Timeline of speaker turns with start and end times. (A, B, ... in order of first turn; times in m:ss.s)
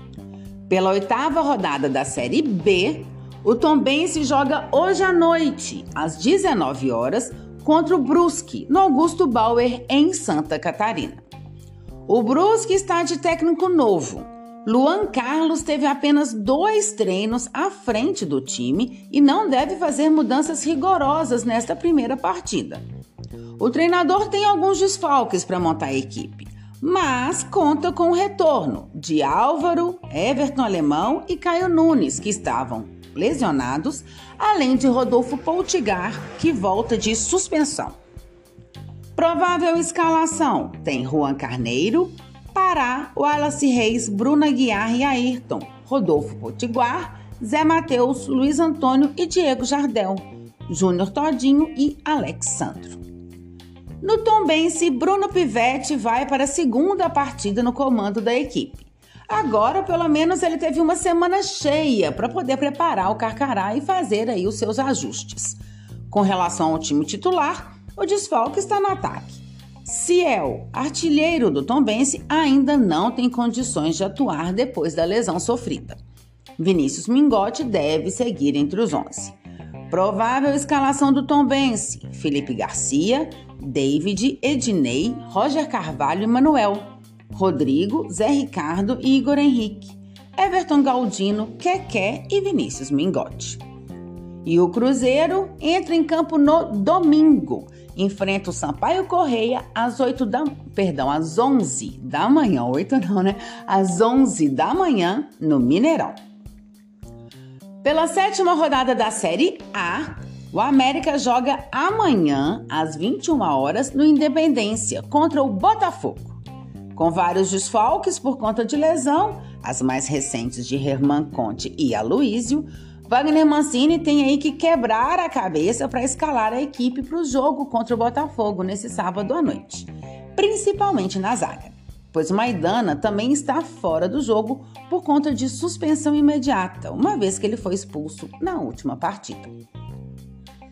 0:00.7-0:11.2 A
0:12.1-0:22.8 A
0:23.6-0:38.0 A
0:39.2-0:53.0 A
0:54.0-1:05.6 A
1:06.1-1:16.0 A
1:16.6-1:19.4 A
1:19.9-1:33.6 A
1:34.4-1:46.2 A
1:47.8-1:56.4 A
1:57.0-2:19.6 A